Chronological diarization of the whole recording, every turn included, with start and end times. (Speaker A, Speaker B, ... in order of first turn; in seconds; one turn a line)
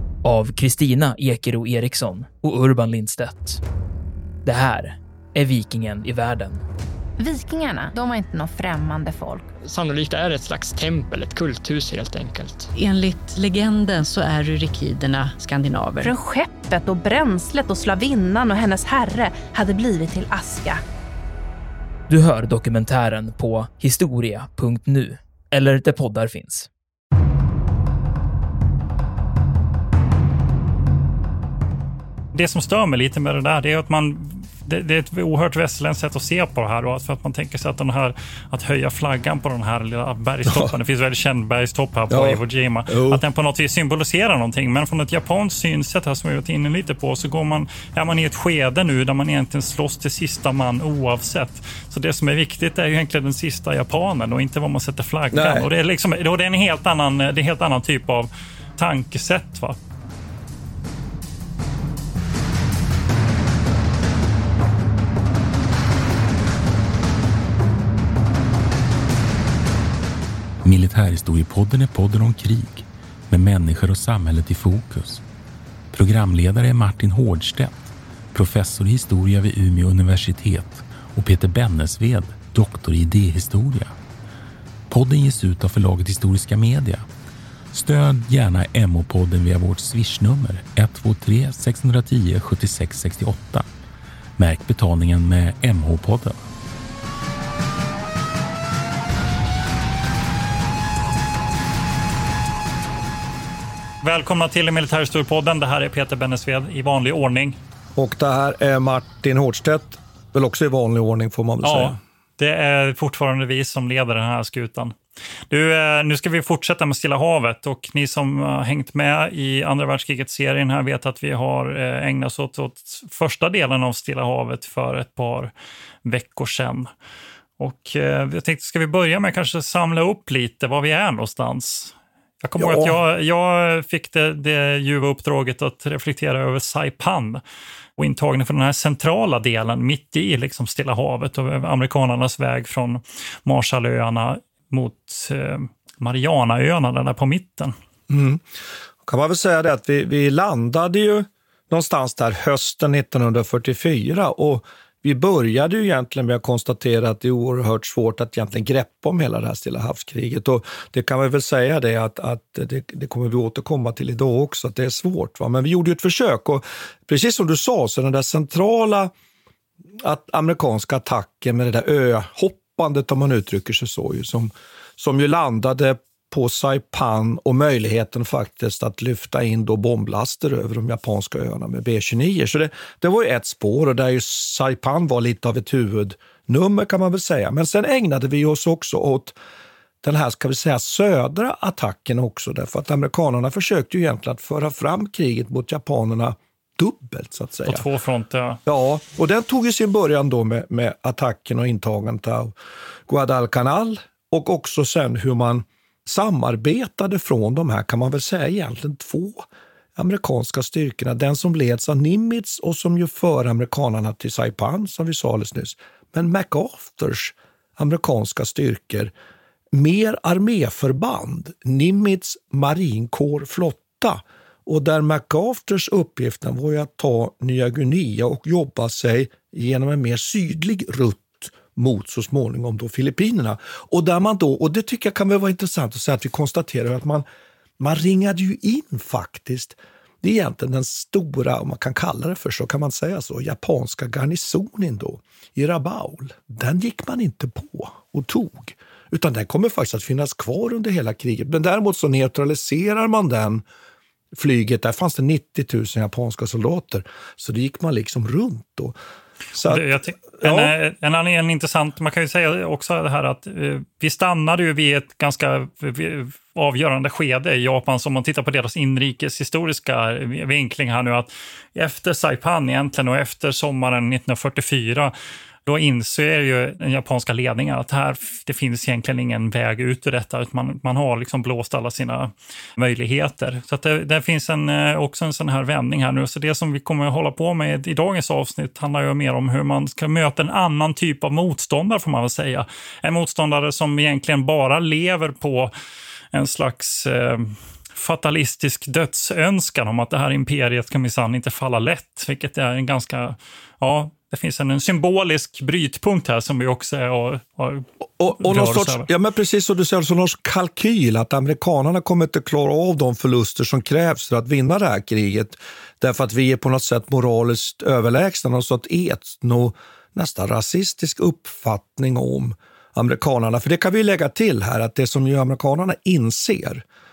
Speaker A: 0.2-3.6
Speaker A: 4.4-6.6
Speaker B: 7.2-9.5
Speaker C: 9.6-12.7
Speaker D: 12.8-16.1
Speaker B: 16.0-20.8
Speaker A: 22.1-26.7
Speaker E: 32.3-59.8
Speaker F: 40.5-40.8
Speaker F: 42.1-43.2
Speaker F: 55.3-55.7
Speaker G: 70.6-75.2
Speaker G: 75.9-84.0
Speaker G: 84.9-87.1
Speaker G: 87.7-93.7
Speaker G: 94.4-96.4
Speaker E: 104.0-107.6
Speaker F: 108.0-112.0
Speaker E: 111.6-115.0
Speaker E: 115.5-125.5
Speaker E: 126.0-126.9
Speaker E: 127.6-137.4
Speaker F: 132.6-133.0
Speaker E: 138.0-147.7
Speaker F: 148.1-148.4
Speaker F: 149.0-169.1
Speaker F: 170.0-189.4
Speaker F: 190.0-197.8
Speaker E: 197.7-198.6
Speaker F: 198.7-202.5
Speaker F: 203.1-209.4
Speaker F: 210.0-219.1
Speaker F: 219.7-237.3
Speaker F: 237.8-253.6
Speaker F: 254.3-259.0
Speaker F: 259.6-260.8
Speaker E: 259.6-275.1
Speaker E: 275.7-295.7
Speaker E: 296.3-309.1
Speaker F: 308.2-326.9